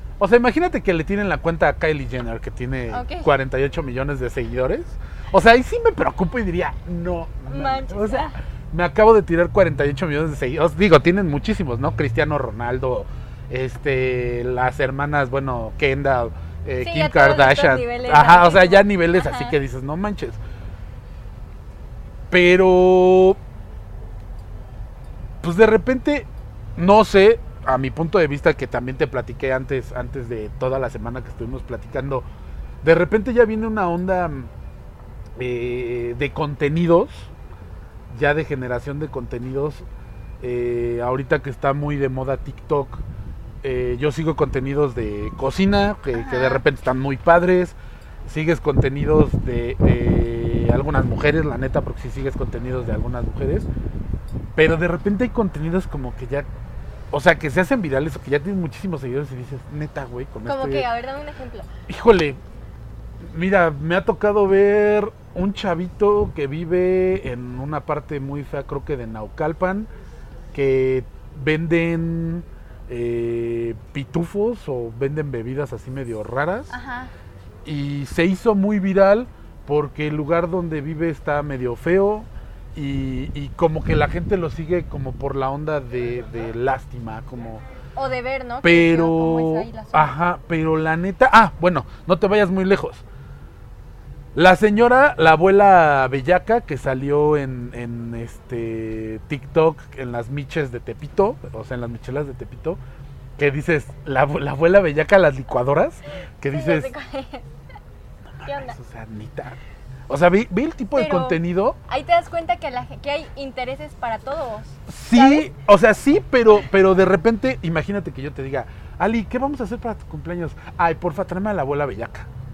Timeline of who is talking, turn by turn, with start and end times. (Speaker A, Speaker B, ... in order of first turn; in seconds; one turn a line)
Speaker A: 0.2-20.4
Speaker B: 2.9-3.3
Speaker B: 7.5-8.4
Speaker B: 16.8-19.6
Speaker A: 22.3-23.4
Speaker A: 25.4-32.2
Speaker A: 32.8-34.5
Speaker A: 35.4-37.3
Speaker A: 38.1-39.9
Speaker A: 40.4-43.0
Speaker A: 43.6-53.7
Speaker B: 46.1-46.6
Speaker A: 54.5-56.5
Speaker A: 57.1-60.9
Speaker B: 60.5-61.7
Speaker A: 61.9-62.4
Speaker A: 63.2-69.9
Speaker A: 70.5-76.7
Speaker B: 76.7-77.1
Speaker A: 77.6-87.6
Speaker B: 88.0-90.1
Speaker A: 88.6-93.0
Speaker A: 94.3-102.8
Speaker A: 103.4-106.9
Speaker B: 106.5-107.5
Speaker A: 108.4-111.8
Speaker B: 108.4-108.8
Speaker B: 110.9-115.5
Speaker A: 114.9-122.3